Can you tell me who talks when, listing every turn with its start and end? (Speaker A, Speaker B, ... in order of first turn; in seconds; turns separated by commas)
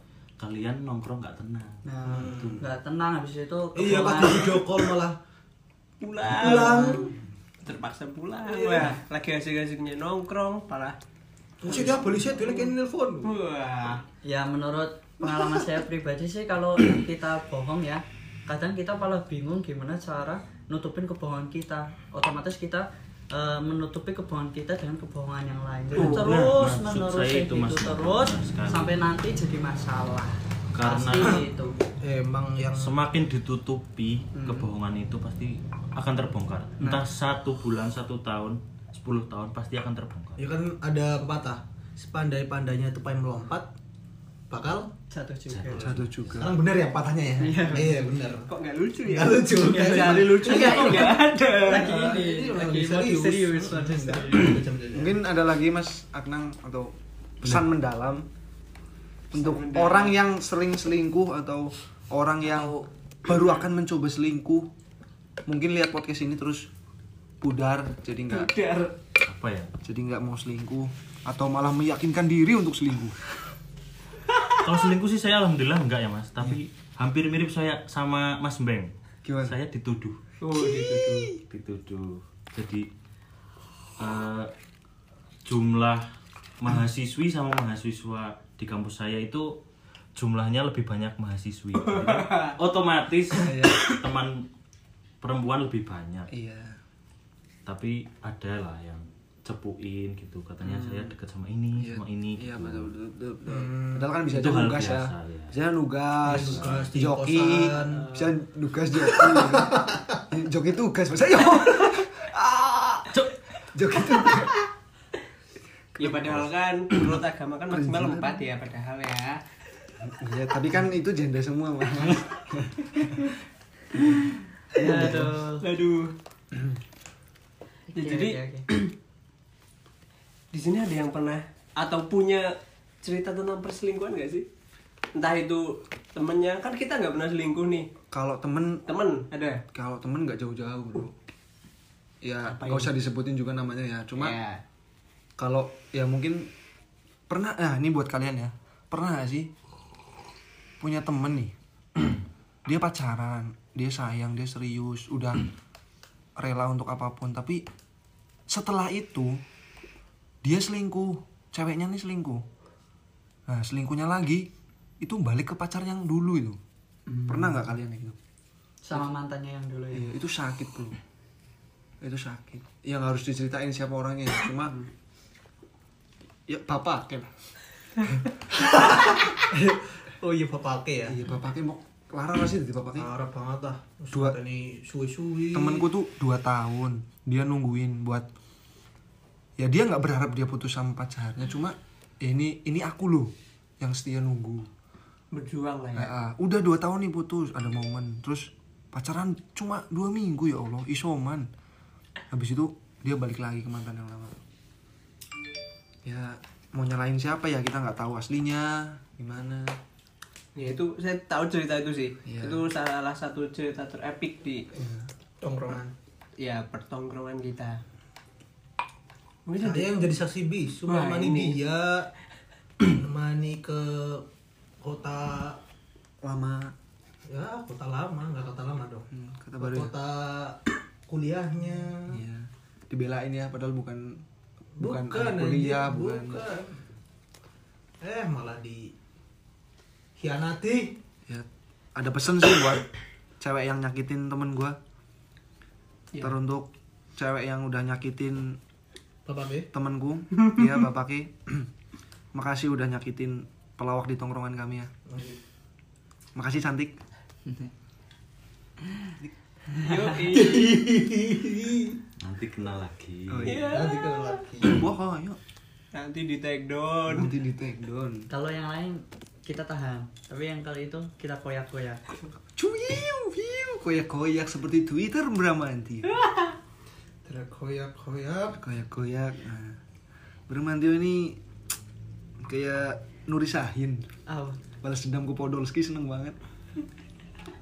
Speaker A: 0.4-2.6, Speaker B: 1.8-4.6, Speaker C: 2.1-2.6, Speaker C: 3.8-5.2, Speaker D: 6.0-7.1, Speaker C: 6.3-7.1, Speaker D: 7.6-10.9, Speaker C: 8.4-8.9, Speaker C: 11.6-13.3, Speaker D: 11.7-14.0, Speaker B: 14.2-31.8, Speaker E: 25.9-26.3, Speaker A: 26.0-28.9, Speaker A: 30.7-31.4, Speaker C: 32.0-33.0, Speaker A: 32.7-40.5, Speaker B: 34.3-34.7, Speaker B: 36.8-37.0, Speaker C: 40.4-43.7, Speaker C: 44.5-44.9, Speaker B: 45.1-45.9, Speaker A: 45.5-46.4, Speaker E: 45.7-46.5, Speaker C: 46.4-48.5, Speaker B: 47.4-48.2, Speaker D: 48.5-52.0, Speaker C: 49.0-55.2, Speaker B: 49.5-54.6, Speaker E: 54.9-58.3, Speaker E: 59.3-64.7, Speaker D: 59.3-60.2, Speaker E: 65.5-66.7, Speaker E: 67.4-68.5, Speaker D: 68.3-68.9, Speaker A: 69.2-69.7, Speaker E: 69.8-73.2, Speaker A: 74.6-78.9, Speaker E: 79.2-79.6, Speaker A: 79.4-80.2, Speaker D: 80.4-81.3, Speaker E: 80.6-81.4, Speaker A: 81.5-82.9, Speaker A: 84.0-84.5, Speaker A: 85.5-86.0, Speaker A: 86.6-89.6, Speaker A: 90.2-94.5, Speaker D: 91.8-92.5, Speaker E: 93.4-93.9, Speaker A: 95.2-96.3, Speaker E: 96.3-96.8, Speaker A: 97.7-102.9, Speaker E: 100.6-101.2, Speaker E: 101.8-113.2, Speaker C: 103.5-104.1, Speaker A: 104.3-105.5, Speaker C: 106.2-108.0, Speaker A: 106.3-106.9, Speaker D: 107.7-108.3, Speaker C: 109.2-110.2, Speaker E: 113.7-114.6, Speaker D: 116.0-119.4, Speaker E: 116.0-116.4, Speaker E: 117.7-118.4, Speaker E: 120.0-123.3, Speaker B: 124.7-125.6, Speaker D: 124.8-126.1, Speaker E: 124.8-125.3, Speaker B: 127.9-128.7, Speaker D: 128.0-128.8, Speaker D: 130.5-134.4, Speaker D: 135.1-137.9, Speaker E: 138.1-138.8, Speaker D: 138.9-139.6, Speaker E: 139.7-141.1, Speaker E: 142.2-144.4, Speaker D: 142.5-142.9, Speaker D: 144.2-144.6, Speaker E: 145.4-146.5, Speaker E: 147.3-149.5, Speaker E: 150.8-155.4, Speaker E: 156.4-157.6, Speaker E: 158.5-159.4, Speaker E: 160.4-162.4, Speaker E: 163.5-164.5, Speaker E: 165.0-166.6, Speaker B: 167.1-167.5, Speaker E: 167.3-168.2, Speaker B: 168.8-170.1, Speaker E: 169.9-171.0, Speaker E: 172.0-174.7, Speaker E: 176.5-177.3, Speaker C: 178.5-181.2, Speaker E: 181.1-183.1, Speaker C: 182.9-185.8, Speaker E: 184.1-184.4, Speaker E: 185.5-188.2, Speaker E: 189.6-194.7, Speaker D: 195.3-196.1, Speaker E: 195.9-201.5, Speaker E: 202.3-204.4, Speaker E: 206.0-209.8, Speaker D: 210.5-214.7, Speaker E: 212.2-212.6, Speaker E: 214.8-215.0, Speaker C: 215.4-215.9, Speaker D: 216.4-217.8, Speaker D: 219.4-219.9, Speaker C: 219.6-222.1, Speaker D: 220.9-221.6, Speaker C: 222.8-224.2, Speaker C: 224.8-225.6, Speaker E: 226.2-226.7, Speaker C: 227.3-229.1, Speaker E: 229.1-229.9, Speaker C: 229.6-232.2, Speaker E: 232.1-234.2, Speaker C: 234.8-236.8, Speaker E: 234.8-236.4, Speaker C: 238.0-238.9, Speaker C: 240.2-241.0, Speaker E: 241.3-242.8, Speaker E: 243.4-244.8, Speaker E: 246.2-248.6, Speaker C: 249.2-249.7, Speaker E: 249.7-251.7, Speaker E: 252.3-254.9, Speaker C: 255.1-255.4, Speaker E: 256.4-257.0, Speaker D: 259.8-260.7, Speaker C: 260.3-262.0, Speaker A: 262.2-263.6, Speaker E: 263.3-263.9, Speaker D: 263.5-264.4, Speaker C: 263.6-264.8, Speaker E: 264.6-265.4, Speaker D: 265.9-267.3, Speaker E: 267.1-268.3, Speaker B: 268.3-272.0, Speaker E: 272.6-276.1, Speaker C: 277.2-278.6, Speaker E: 278.6-279.8, Speaker E: 280.5-281.4, Speaker E: 282.4-284.1, Speaker B: 284.3-284.6, Speaker E: 284.8-286.4